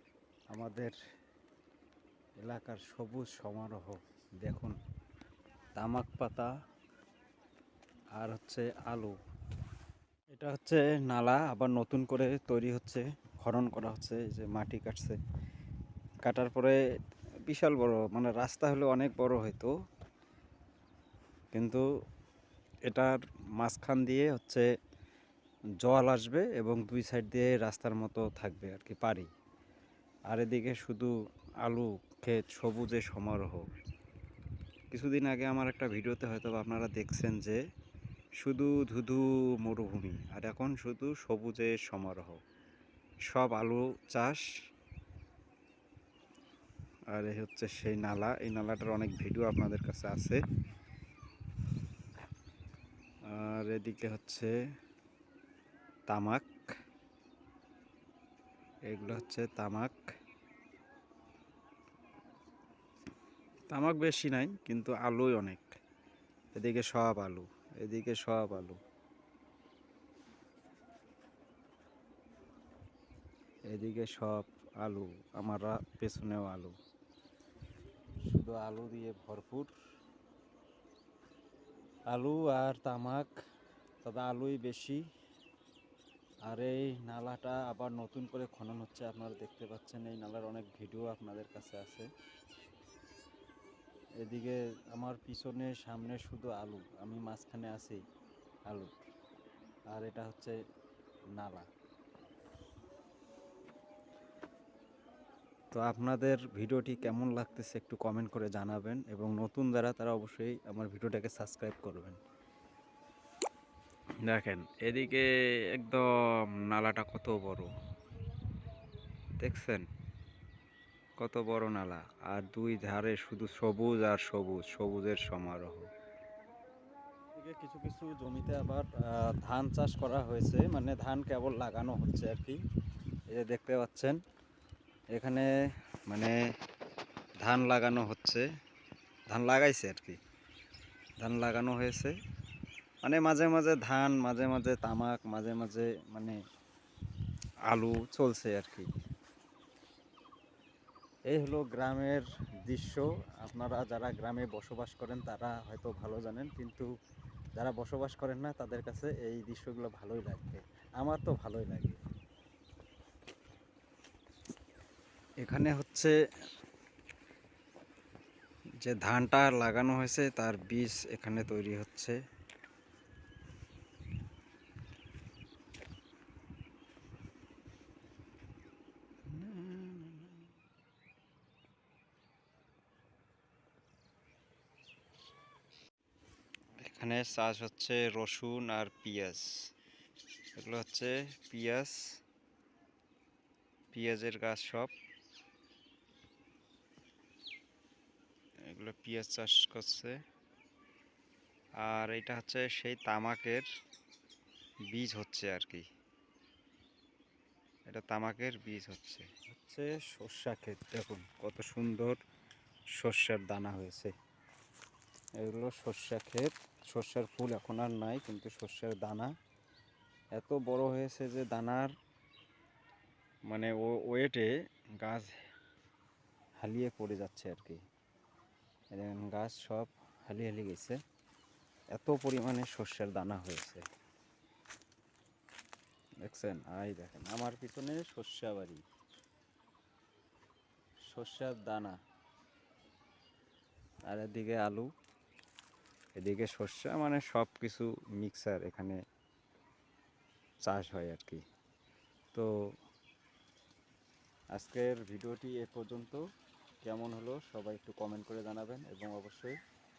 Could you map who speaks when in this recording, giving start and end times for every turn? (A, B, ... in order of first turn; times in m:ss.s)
0:00.5-0:01.0 A
0:02.4-0:04.8 A
0:05.8-0:06.5 A
0:08.2-0:09.2 A
0:10.3-0:15.2 A
0:16.2-0:16.8 A
0:17.4-0:19.7 A
0:21.5-0:21.8 A
0:22.9-0:24.7 A
0:25.8-0:29.3 A
0:30.3-0:31.1 A
0:31.6-0:33.7 A
0:34.9-0:37.6 A
0:38.4-0:42.4 A
0:43.3-0:44.5 A
0:47.1-0:50.4 A
0:53.3-0:54.5 A
0:56.1-0:56.5 A
0:58.9-1:00.0 A
1:03.7-1:05.7 A
1:06.5-1:08.8 A
1:13.7-1:16.7 A
1:18.2-1:19.7 A
1:22.1-1:23.3 A
1:24.0-1:25.0 A
1:26.4-1:32.1 A
1:34.2-1:38.0 A
1:38.7-1:39.0 A
1:39.9-1:40.6 A
1:41.3-1:41.7 A
1:45.7-1:52.2 A
1:54.2-1:57.7 A
1:59.4-1:59.9 A
2:01.2-2:05.9 A
2:07.4-2:12.6 A
2:13.3-2:14.2 A
2:15.1-2:15.5 A
2:16.1-2:16.3 A
2:17.4-2:18.5 A
2:19.3-2:20.2 A
2:21.2-2:22.2 A
2:23.0-2:26.4 A
2:27.7-2:28.9 A
2:31.3-2:36.9 A
2:37.6-2:42.0 A
2:45.4-2:46.1 A
2:48.8-2:52.2 A
2:59.3-3:00.5 A
3:06.8-3:09.6 A
3:10.6-3:12.0 A
3:13.9-3:14.9 A
3:18.7-3:20.2 A
3:21.8-3:23.7 A
3:24.9-3:25.8 A
3:27.9-3:32.2 A
3:33.0-3:34.1 A
3:35.4-3:39.3 A
3:40.4-3:41.9 A
3:43.5-3:45.3 A
3:46.6-3:47.8 A
3:48.9-3:51.0 A
3:51.9-3:53.8 A
3:56.2-3:58.8 A
4:01.1-4:02.0 A
4:04.1-4:04.9 A
4:06.2-4:09.0 A
4:10.6-4:11.4 A
4:14.5-4:16.2 A
4:16.8-4:19.6 A